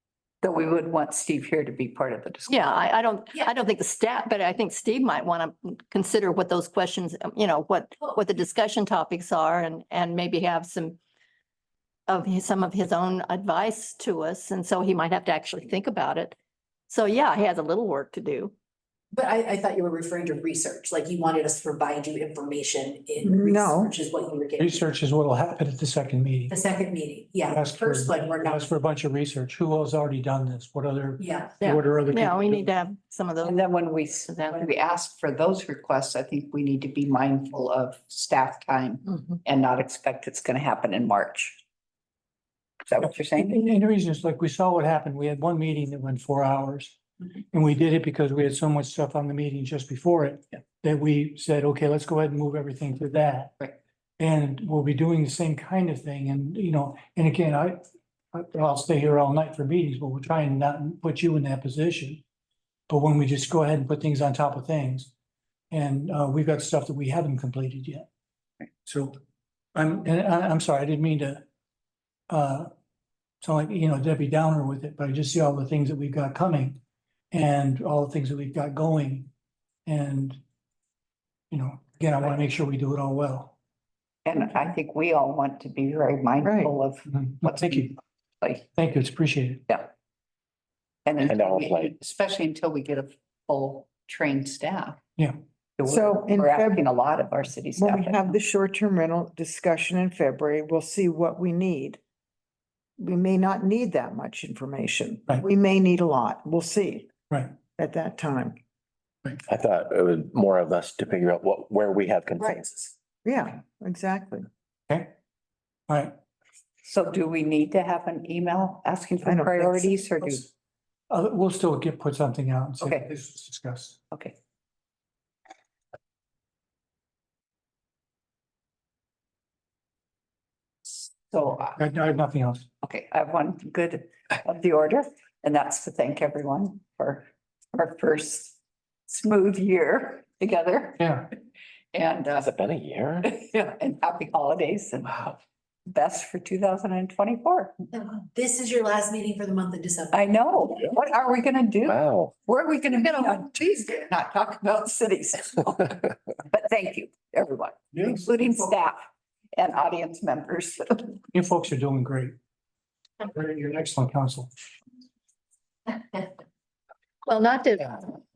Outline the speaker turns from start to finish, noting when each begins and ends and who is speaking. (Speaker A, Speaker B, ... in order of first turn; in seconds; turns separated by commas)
Speaker A: 0.4-2.6, Speaker B: 2.5-11.0, Speaker B: 12.1-16.4, Speaker B: 16.9-18.5, Speaker C: 19.1-24.9, Speaker D: 23.2-23.9, Speaker E: 24.6-26.6, Speaker C: 26.5-28.7, Speaker E: 27.5-32.7, Speaker C: 31.2-31.7, Speaker B: 31.6-33.7, Speaker A: 33.4-41.6, Speaker B: 34.3-34.7, Speaker A: 42.9-43.6, Speaker E: 43.0-47.0, Speaker E: 47.5-57.8, Speaker E: 58.3-62.2, Speaker E: 62.9-65.1, Speaker E: 65.7-68.1, Speaker E: 68.8-69.2, Speaker E: 69.8-71.4, Speaker E: 72.3-72.7, Speaker E: 73.4-76.8, Speaker E: 77.3-79.3, Speaker E: 79.9-80.4, Speaker E: 81.5-83.5, Speaker A: 84.2-88.6, Speaker D: 86.4-86.7, Speaker E: 87.1-87.9, Speaker E: 88.8-89.6, Speaker A: 91.1-95.0, Speaker F: 91.2-91.9, Speaker A: 95.8-98.4, Speaker D: 95.9-96.8, Speaker D: 97.8-102.0, Speaker D: 103.0-108.6, Speaker F: 109.5-112.9, Speaker D: 113.2-114.5, Speaker E: 115.9-116.1, Speaker A: 116.8-120.4, Speaker D: 119.2-120.4, Speaker E: 121.1-124.0, Speaker A: 122.8-123.1, Speaker A: 124.1-124.4, Speaker A: 131.1-131.8, Speaker E: 131.8-132.7, Speaker A: 132.8-138.6, Speaker A: 139.1-141.1, Speaker E: 141.0-141.3, Speaker A: 141.9-142.5, Speaker F: 142.4-143.3, Speaker A: 143.2-145.4, Speaker A: 145.9-147.7, Speaker C: 147.9-150.2, Speaker A: 150.1-159.0, Speaker F: 151.9-152.3, Speaker A: 159.5-161.2, Speaker E: 161.3-162.4, Speaker E: 163.2-164.5, Speaker B: 167.2-168.0